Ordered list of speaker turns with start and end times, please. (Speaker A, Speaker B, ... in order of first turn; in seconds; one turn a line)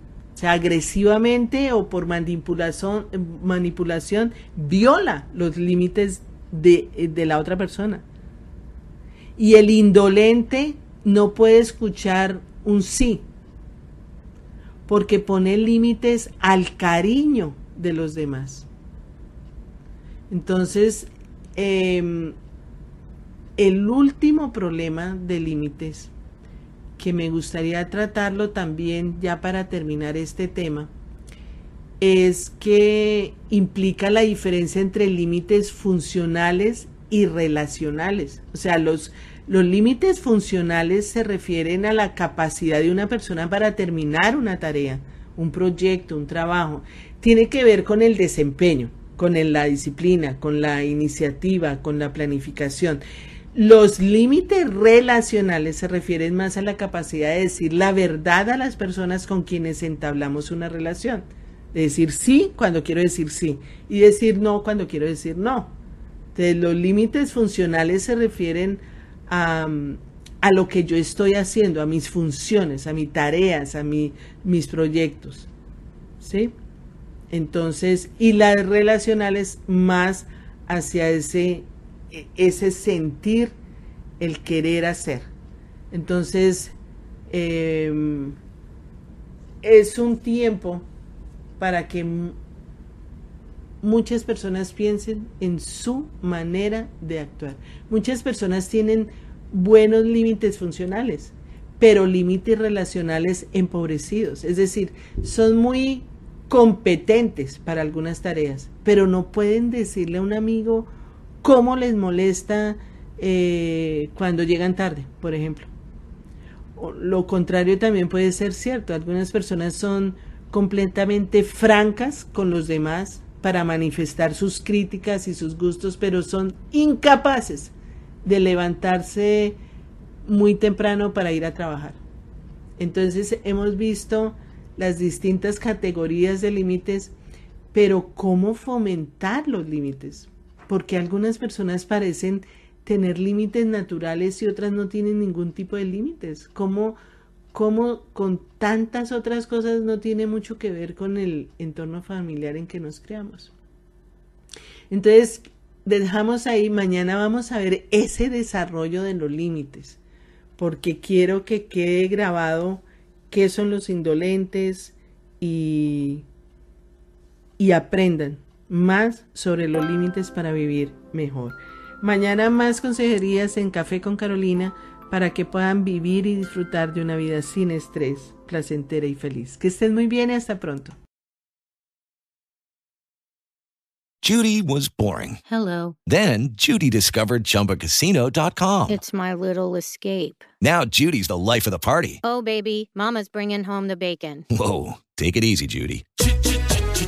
Speaker A: 0.3-8.0
Speaker A: 9.4-13.2
Speaker A: 14.9-18.7
Speaker A: 20.3-22.4
Speaker A: 23.6-26.1
Speaker A: 27.0-30.9
Speaker A: 32.0-53.0
Speaker A: 53.5-65.7
Speaker A: 66.3-75.5
Speaker A: 76.2-76.5
Speaker A: 77.3-83.5
Speaker A: 84.2-85.3
Speaker A: 85.9-86.7
Speaker A: 87.3-88.3
Speaker A: 89.6-90.8
Speaker A: 91.6-92.3
Speaker A: 93.8-110.9
Speaker A: 111.4-115.7
Speaker A: 116.8-127.7
Speaker A: 128.2-129.6
Speaker A: 130.2-132.0
Speaker A: 132.8-137.1
Speaker A: 137.7-147.0
Speaker A: 147.5-153.5
Speaker A: 154.9-160.0
Speaker A: 160.6-166.2
Speaker A: 167.6-181.0
Speaker B: 184.2-185.4
Speaker C: 185.5-185.9
Speaker B: 186.1-189.0
Speaker C: 188.9-190.4
Speaker B: 190.6-192.2
Speaker C: 192.2-194.4
Speaker B: 194.5-196.0